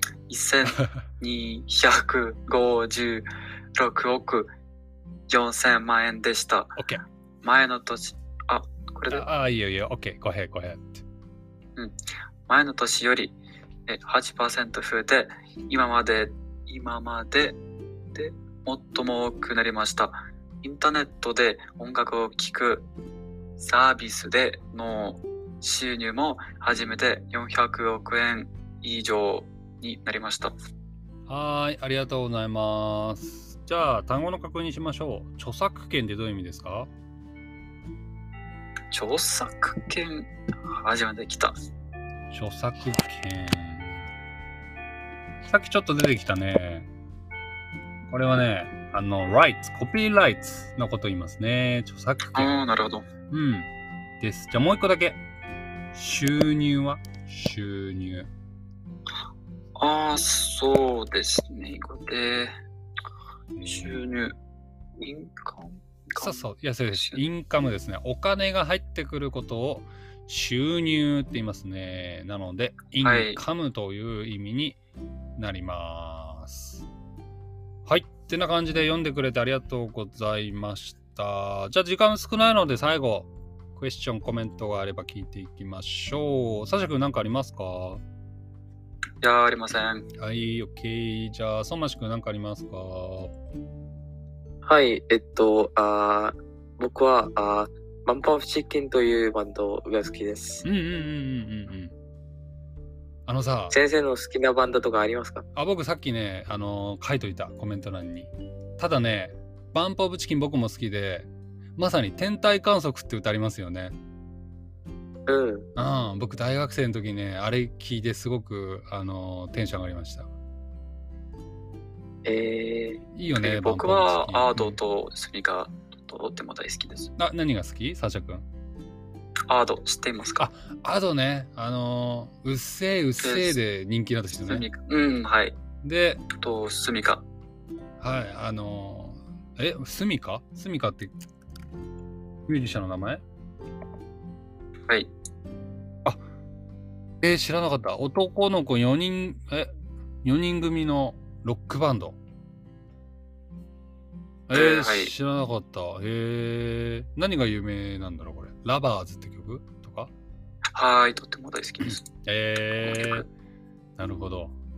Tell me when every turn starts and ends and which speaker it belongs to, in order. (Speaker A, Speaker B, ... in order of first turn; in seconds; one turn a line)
Speaker A: 0.3-4.5
Speaker A: 5.3-6.8
Speaker B: 6.8-7.0
Speaker A: 7.4-9.2
Speaker B: 9.1-11.0
Speaker A: 12.5-13.3
Speaker A: 13.9-17.6
Speaker A: 18.1-22.9
Speaker A: 23.6-30.5
Speaker B: 31.3-36.9
Speaker A: 38.9-41.6
Speaker B: 42.3-44.0
Speaker B: 45.5-46.9
Speaker B: 48.1-52.6
Speaker A: 52.4-53.1
Speaker B: 53.3-53.7
Speaker B: 54.2-55.2
Speaker B: 55.9-58.3
Speaker A: 59.8-62.5
Speaker B: 63.5-64.0
Speaker A: 63.6-64.4
Speaker A: 65.0-67.2
Speaker B: 66.2-74.8
Speaker A: 73.0-73.4
Speaker B: 75.4-76.8
Speaker B: 77.9-88.0
Speaker A: 89.2-90.1
Speaker B: 90.2-93.3
Speaker C: 94.7-100.6
Speaker B: 100.6-101.9
Speaker B: 103.3-103.8
Speaker C: 103.7-105.5
Speaker B: 105.5-114.0
Speaker C: 115.3-115.7
Speaker B: 115.8-120.3
Speaker C: 122.2-123.0
Speaker B: 123.1-124.8
Speaker A: 123.4-127.1
Speaker B: 127.2-128.4
Speaker A: 129.5-130.5
Speaker B: 130.4-134.7
Speaker A: 133.2-133.6
Speaker A: 134.5-135.6
Speaker B: 135.8-136.3
Speaker A: 136.4-137.2
Speaker B: 138.0-141.1
Speaker B: 142.5-143.2
Speaker B: 147.2-149.7
Speaker B: 150.2-152.2
Speaker B: 154.5-160.1
Speaker A: 154.5-155.1
Speaker A: 160.7-162.1
Speaker B: 161.8-163.3
Speaker A: 162.8-163.3
Speaker B: 164.0-164.6